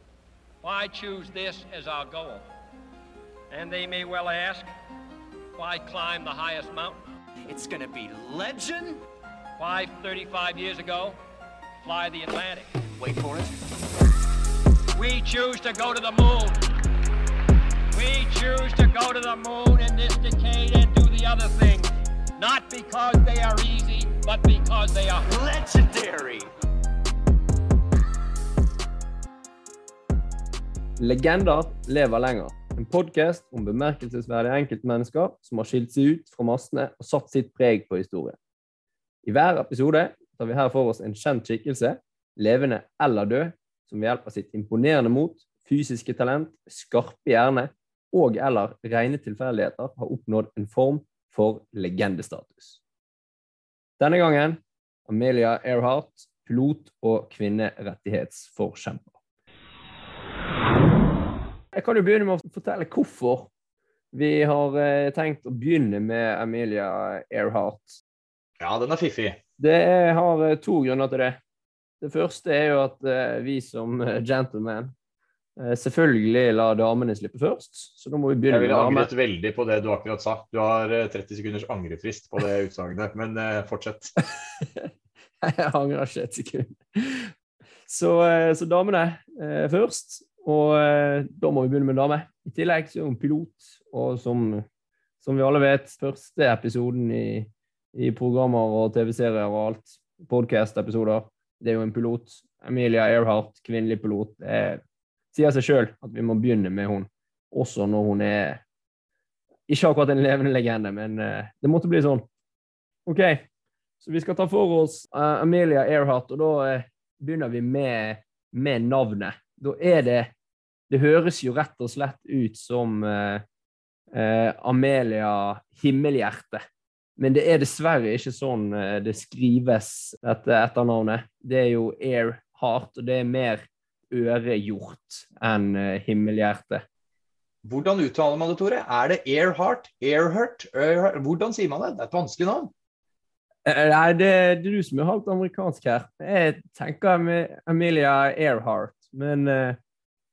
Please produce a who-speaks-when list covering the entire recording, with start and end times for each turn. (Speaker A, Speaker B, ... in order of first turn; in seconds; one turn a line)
Speaker A: 0.6-2.4
Speaker A: 3.5-4.7
Speaker A: 5.5-7.0
Speaker B: 7.5-9.0
Speaker A: 9.6-11.2
Speaker A: 11.8-12.8
Speaker B: 13.0-13.4
Speaker A: 14.9-16.7
Speaker A: 17.9-25.4
Speaker B: 25.4-26.4
Speaker C: 31.0-38.4
Speaker C: 39.2-52.8
Speaker C: 54.0-59.1
Speaker C: 61.7-63.5
Speaker C: 64.1-68.0
Speaker D: 68.6-69.4
Speaker C: 69.6-71.4
Speaker C: 72.0-74.9
Speaker C: 75.6-79.1
Speaker D: 78.5-84.1
Speaker C: 84.2-84.9
Speaker C: 85.4-87.3
Speaker C: 87.9-94.6
Speaker C: 95.2-104.8
Speaker C: 105.3-108.6
Speaker C: 109.7-112.2
Speaker C: 113.0-113.4
Speaker C: 114.0-120.3
Speaker C: 120.9-123.4
Speaker C: 124.1-126.6
Speaker C: 127.2-136.8
Speaker D: 137.6-142.7
Speaker C: 143.6-149.8